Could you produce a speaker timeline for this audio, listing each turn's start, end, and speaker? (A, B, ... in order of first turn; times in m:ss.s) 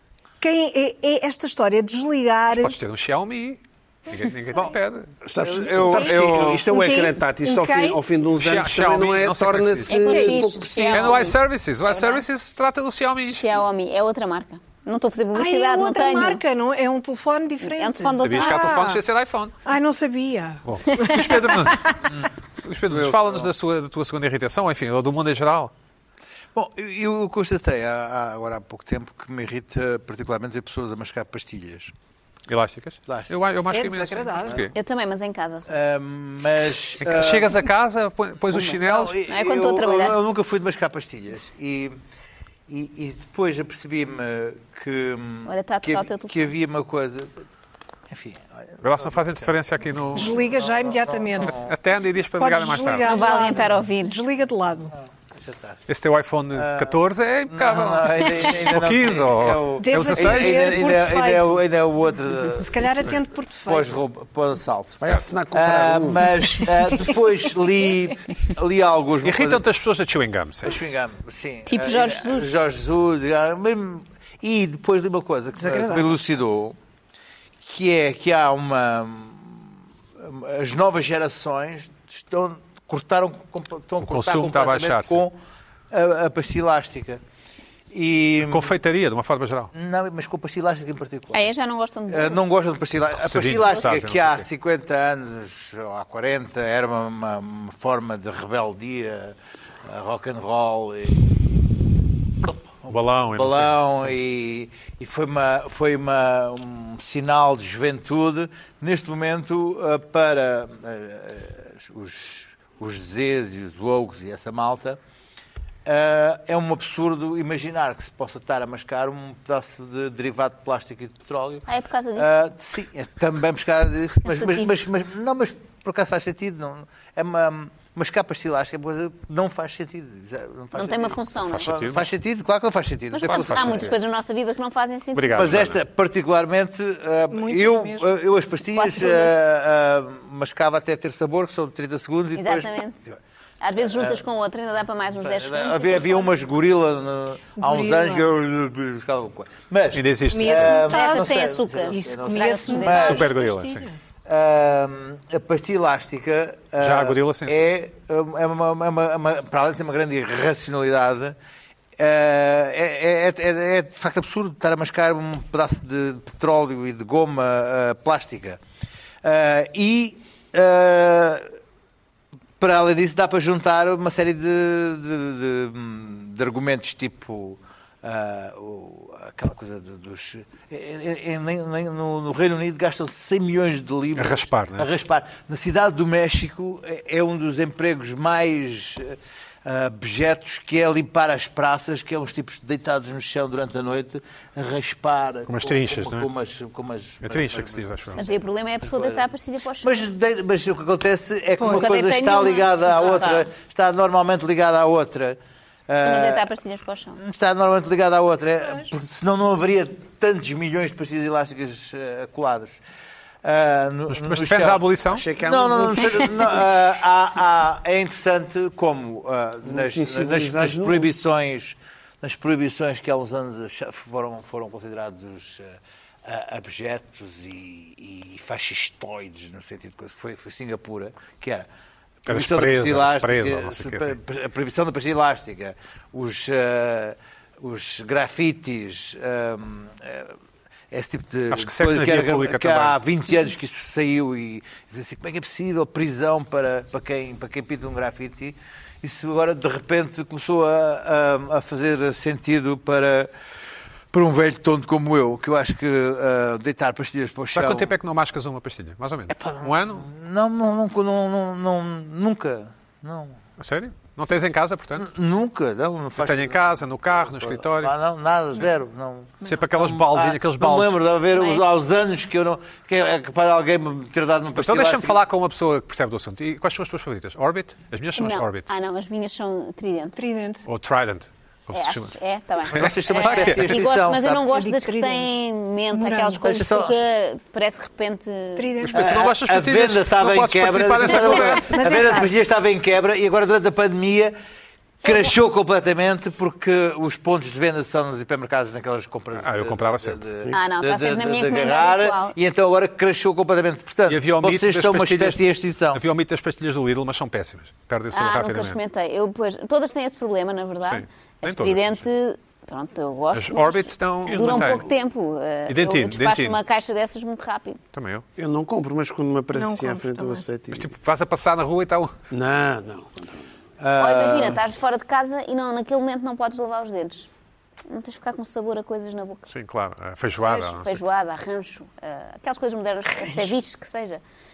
0:00.4-0:02.8 A
0:02.5-0:05.1 B
0:05.2-0:11.0 C
0:05.4-0:06.6 D
0:05.7-0:08.0 A
0:08.4-0:10.0 B
0:09.9-0:12.2 E
0:10.1-0:11.0 A
0:10.9-0:13.4 B
0:13.3-0:16.4 E
0:15.3-0:19.0 A
0:17.6-0:18.8 E
0:18.2-0:19.6 B
0:19.6-0:22.0 A
0:20.7-0:22.0 B
0:22.6-0:25.7 B
0:22.9-0:23.5 D
0:26.6-0:31.9 D
0:32.5-0:34.7 B
0:33.1-0:33.3 D
0:33.7-0:34.6 A
0:34.7-0:35.7 E
0:35.7-0:37.6 D
0:37.0-0:39.2 B
0:38.5-0:42.0 D
0:39.3-0:40.2 E
0:42.7-0:47.3 D
0:45.4-0:46.5 E
0:48.1-0:49.5 D
0:48.8-0:50.4 B
0:50.2-0:51.6 A
0:50.2-0:51.7 D
0:51.4-0:53.2 B
0:52.4-0:54.9 A
0:53.0-0:54.2 E
0:54.9-0:55.8 D
0:55.9-1:00.8 B
0:56.6-0:57.0 D
0:57.5-1:02.9 D
0:59.8-1:01.6 A
1:02.6-1:04.0 A
1:03.7-1:09.6 D
1:05.0-1:06.5 C
1:09.2-1:10.8 B
1:10.6-1:16.8 D
1:11.7-1:12.5 E
1:15.6-1:16.2 A
1:17.6-1:19.6 D
1:20.2-1:25.4 D
1:24.0-1:25.2 B
1:25.9-1:27.2 D
1:27.9-1:28.7 D
1:28.4-1:29.7 B
1:29.7-1:31.5 D
1:31.3-1:32.4 E
1:32.1-1:41.2 D
1:33.2-1:34.5 B
1:42.4-1:55.0 D
1:42.9-1:44.2 B
1:55.9-2:14.0 D
2:01.7-2:02.3 E
2:04.3-2:04.7 E
2:10.7-2:11.8 E
2:11.5-2:12.1 B
2:13.1-2:15.7 E
2:13.2-2:14.0 B
2:15.2-2:15.8 B
2:15.4-2:23.2 D
2:17.3-2:18.2 A
2:18.8-2:19.4 E
2:22.4-2:23.0 E
2:23.6-2:26.4 E
2:23.8-2:24.2 D
2:25.2-2:33.3 D
2:27.6-2:28.3 A
2:29.9-2:30.8 B
2:30.3-2:34.0 A
2:30.8-2:33.3 E
2:32.9-2:33.9 B
2:34.2-2:41.4 D
2:36.8-2:37.6 B
2:42.0-2:48.6 D
2:49.2-2:51.5 D
2:52.6-3:19.3 D
3:04.2-3:04.9 B
3:15.5-3:16.3 B
3:17.2-3:18.3 B
3:18.2-3:20.1 E
3:19.8-3:26.5 D
3:21.6-3:21.9 A
3:21.6-3:23.5 E
3:26.0-3:27.2 E
3:27.2-3:32.8 D
3:33.4-3:34.9 D
3:34.1-3:35.3 B
3:35.1-3:36.6 C
3:35.4-3:51.7 D
3:39.6-3:41.1 C
3:52.3-3:54.2 B
3:52.3-4:00.4 D
4:00.9-4:13.3 D
4:01.5-4:03.0 B
4:14.1-4:17.9 D
4:17.5-4:20.1 B
4:19.3-4:23.4 D
4:23.6-4:25.1 B
4:25.0-4:26.6 D
4:26.2-4:27.9 B
4:27.2-4:35.2 D
4:29.4-4:31.0 B
4:31.3-4:31.6 E
4:34.6-4:38.7 B
4:38.2-4:40.2 E
4:40.2-4:40.6 A
4:40.7-4:42.1 B
4:41.7-4:48.8 E
4:42.7-4:43.8 B
4:42.7-4:44.4 D
4:44.5-4:45.3 A
4:45.9-4:46.6 A
4:46.4-4:47.0 D
4:48.6-4:49.1 A
4:48.8-4:52.1 B
4:48.9-4:54.4 D
4:51.1-4:52.3 A
4:55.0-5:06.0 D
4:55.1-4:55.3 A
4:59.4-5:00.2 B
5:00.5-5:02.4 E
5:04.1-5:08.8 B
5:08.1-5:17.8 E
5:10.8-5:12.0 B
5:13.3-5:14.8 B
5:14.3-5:14.9 C
5:15.7-5:16.6 B
5:17.9-5:18.2 B
5:18.4-5:20.9 C
5:19.6-5:20.5 A
5:20.7-5:22.1 B
5:22.3-5:23.5 C
5:23.8-5:24.6 D
5:24.0-5:27.3 E
5:27.9-5:29.5 E
5:29.5-5:31.0 B
5:30.5-5:30.7 A
5:30.8-5:34.2 E
5:33.2-5:33.5 A